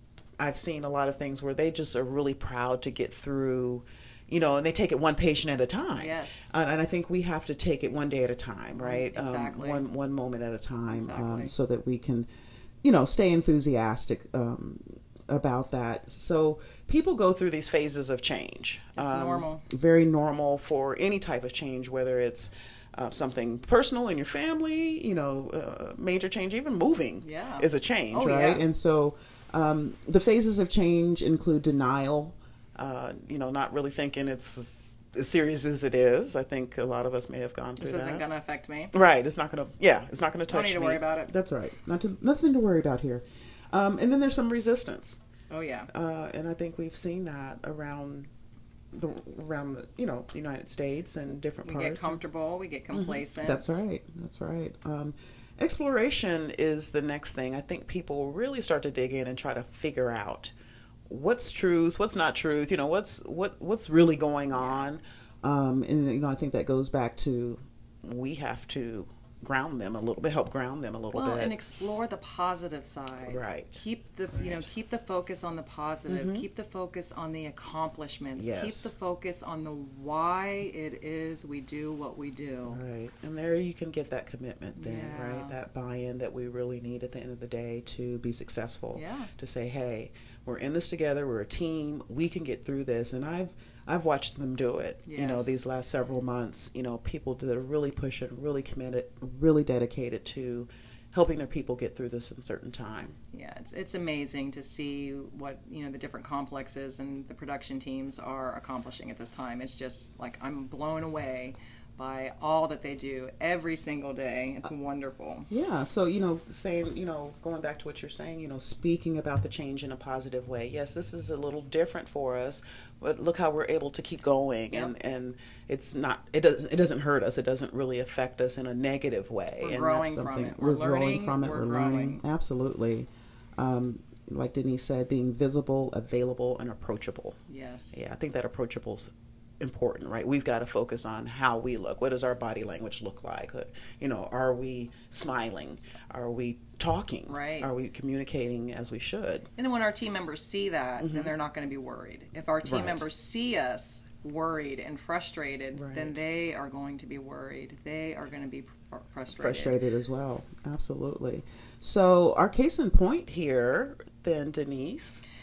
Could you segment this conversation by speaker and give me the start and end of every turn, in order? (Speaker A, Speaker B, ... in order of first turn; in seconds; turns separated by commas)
Speaker A: 0.4-12.3, Speaker B: 6.0-6.5, Speaker B: 8.8-9.8, Speaker B: 10.9-11.5, Speaker A: 12.8-38.2, Speaker B: 18.9-19.6, Speaker B: 27.2-28.6, Speaker B: 37.8-38.9, Speaker A: 38.9-45.2, Speaker B: 40.5-41.3, Speaker B: 45.5-45.9, Speaker A: 45.9-48.3, Speaker A: 48.9-52.2, Speaker B: 51.6-53.8, Speaker A: 52.9-60.5, Speaker A: 61.1-71.5, Speaker B: 64.5-64.9, Speaker B: 71.1-82.8, Speaker A: 73.2-74.7, Speaker A: 76.1-76.5, Speaker A: 78.3-78.9, Speaker A: 82.7-103.2, Speaker B: 84.8-85.6, Speaker B: 88.9-89.3, Speaker B: 95.0-95.6, Speaker B: 103.3-115.5, Speaker A: 115.5-137.4, Speaker B: 129.6-132.2, Speaker B: 137.5-138.0, Speaker A: 137.9-149.5, Speaker B: 147.3-147.7, Speaker B: 149.6-159.8, Speaker A: 151.0-151.3, Speaker A: 152.6-153.1, Speaker A: 155.7-156.2, Speaker A: 159.3-165.2